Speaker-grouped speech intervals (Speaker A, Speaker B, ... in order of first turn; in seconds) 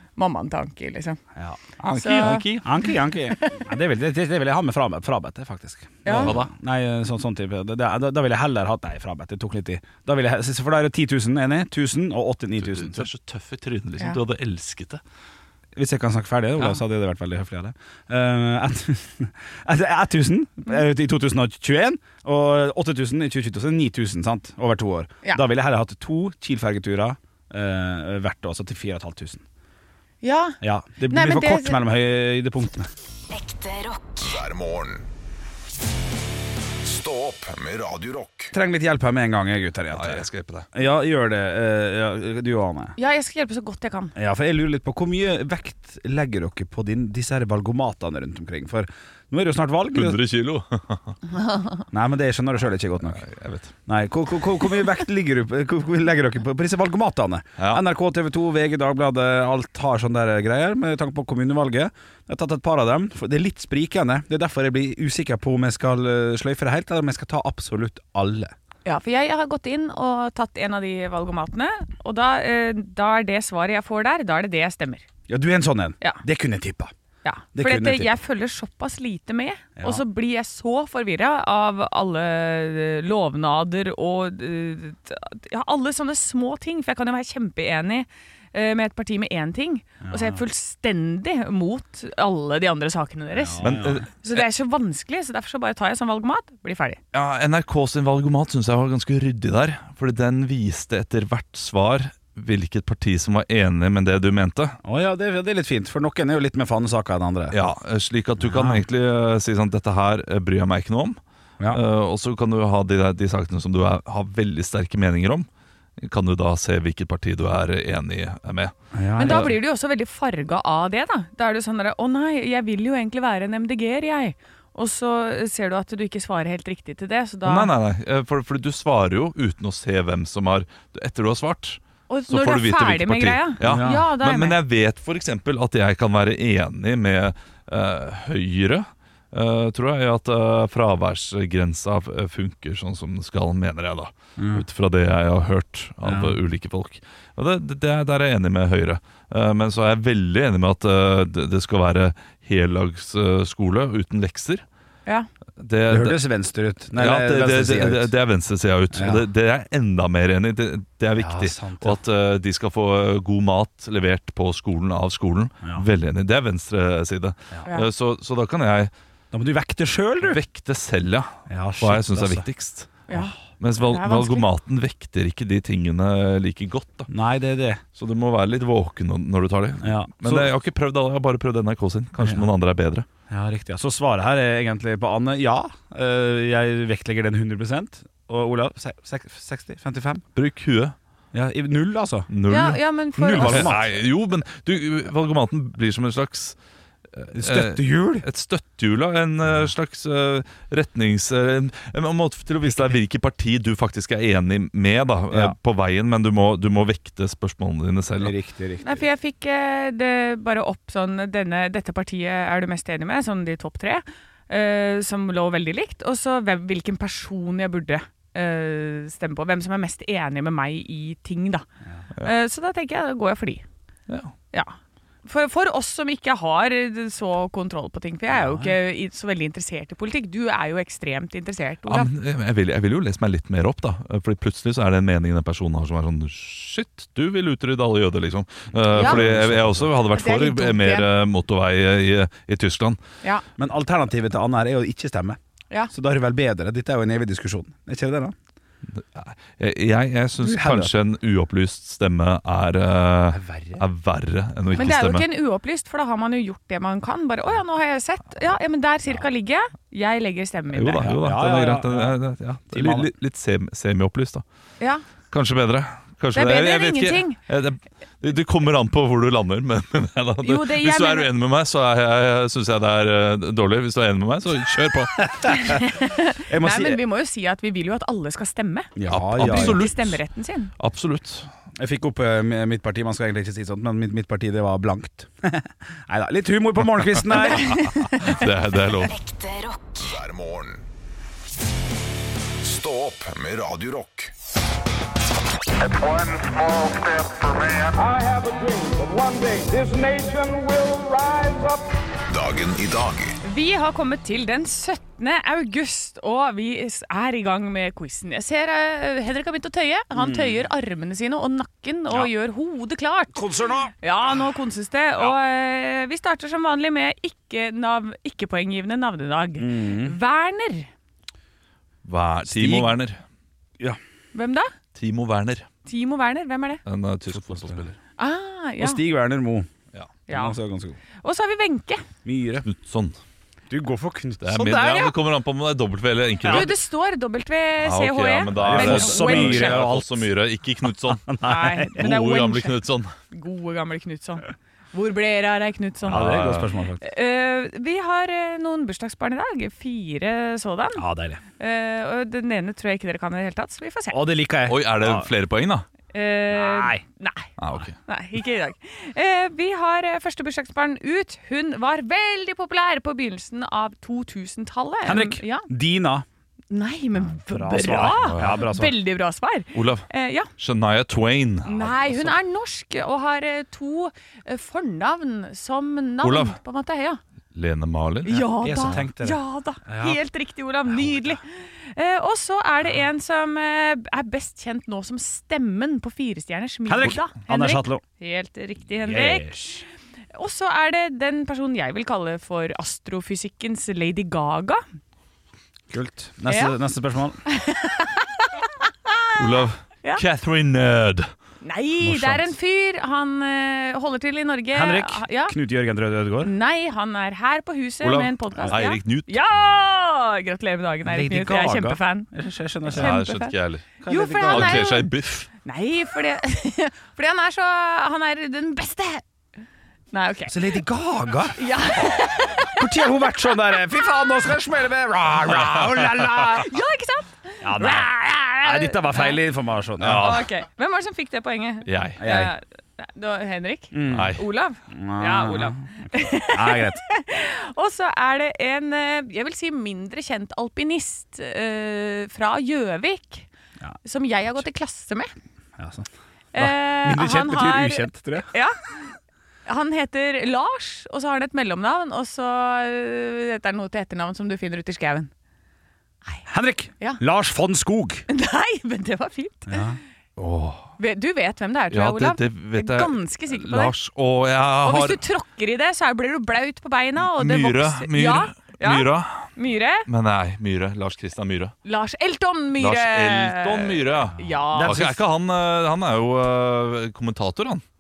Speaker A: 0.2-1.2, 2.0-2.5, 3.3-3.7, 6.0-6.3, 30.2-31.8, 43.0-44.1, 68.8-75.0, 77.2-97.0, 119.2-127.7, 132.1-134.6, 173.1-174.4, 192.5-193.8, 208.8-221.7, 222.2-223.7, 224.5-232.1, 238.9-239.2, 240.1-241.1, 254.8-261.1, 266.3-267.4, 270.4-271.3, 275.5-280.7, 287.5-288.3, 303.4-313.4, 314.0-320.9, 324.3-324.7, 325.9-326.8, 328.2-329.0, 330.3-330.6, 331.2-332.1, 336.5-339.8, 341.4-342.8, 343.3-346.4, 347.0-351.0, 351.6-354.2, 356.1-357.5, 358.1-365.7, 366.7-370.5, 371.6-377.2, 378.3-389.8, 390.3-394.8, 396.5-396.8, 397.5-399.2, 401.6-405.6, 406.4-412.3, 412.9-413.6, 414.1-415.1, 415.6-419.2, 420.1-420.8, 421.6-423.1, 426.5-429.4, 430.1-443.5, 444.0-445.3, 446.5-448.8, 449.7-455.3, 458.3-459.8, 461.0-463.9, 464.8-470.1, 471.9-475.0
Speaker B: 1.8-2.7, 6.2-6.5, 12.6-15.0, 39.9-40.7, 49.9-51.2, 53.0-53.7, 93.6-94.5, 97.1-104.8, 107.5-111.2, 111.7-115.5, 116.0-119.5, 127.5-154.6, 155.6-156.2, 156.9-168.9, 170.2-173.0, 173.6-177.1, 178.0-183.1, 190.4-190.9, 192.3-192.8, 193.3-196.6, 197.2-208.3, 224.1-224.3, 231.9-243.0, 248.9-255.3, 260.7-264.4, 265.3-275.3, 279.1-280.2, 280.8-281.5, 287.7-289.2, 322.0-323.2, 324.9-325.7, 326.9-328.0, 332.6-333.2, 334.4-336.8, 337.8-341.3, 342.0-343.1, 346.1-346.7, 354.7-355.9, 357.6-357.9, 367.9-368.6, 369.7-370.1, 370.6-372.3, 376.2-376.6, 377.5-379.0, 399.4-401.3, 408.0-409.6, 412.9-415.5, 430.0-430.5, 431.9-432.2, 434.1-434.4, 460.4-460.9, 461.9-465.2, 467.2-469.5, 470.1-471.8, 472.8-477.8
Speaker C: 2.6-13.1, 15.8-29.4, 30.6-32.9, 38.5-43.0, 44.1-50.2, 51.9-53.2, 53.9-68.5, 75.3-76.9, 77.5-78.1, 79.8-80.0, 90.0-90.4, 93.3-94.0, 104.8-107.6, 108.4-108.8, 118.9-119.5, 133.6-134.0, 144.4-144.7, 146.0-146.4, 155.9-158.1, 158.9-159.2, 161.2-162.0, 169.3-170.4, 171.5-172.5, 177.1-177.8, 179.8-180.5, 182.2-182.5, 183.3-190.2, 191.3-192.3, 193.2-194.0, 197.3-198.3, 205.3-205.6, 208.2-209.1, 228.3-228.8, 238.8-240.0, 243.6-245.4, 245.9-248.3, 250.4-250.9, 253.3-253.8, 261.0-262.2, 262.7-263.1, 276.5-277.0, 279.0-279.8, 281.8-287.9, 310.1-310.6, 313.3-313.9, 319.6-320.2, 322.5-322.9, 327.3-327.9, 328.8-329.7, 330.3-331.0, 332.2-332.7, 333.7-335.1, 336.4-336.7, 338.5-340.3, 341.1-342.1, 346.1-347.0, 351.0-351.4, 354.1-355.3, 356.5-357.0, 365.1-366.3, 367.4-369.0, 378.6-380.2, 381.0-381.3, 386.9-388.0, 389.0-389.8, 395.9-397.4, 402.0-402.5, 404.7-406.5, 411.1-413.2, 414.0-414.9, 420.5-421.6, 422.7-426.7, 427.6-430.3, 432.2-432.5, 433.9-434.4, 434.9-437.0, 445.8-448.5, 456.5-458.3, 459.7-460.0, 474.7-475.2
Speaker D: 34.2-35.1, 36.8-38.5, 289.9-290.8, 292.6-294.3, 302.3-303.4
Speaker E: 295.9-301.9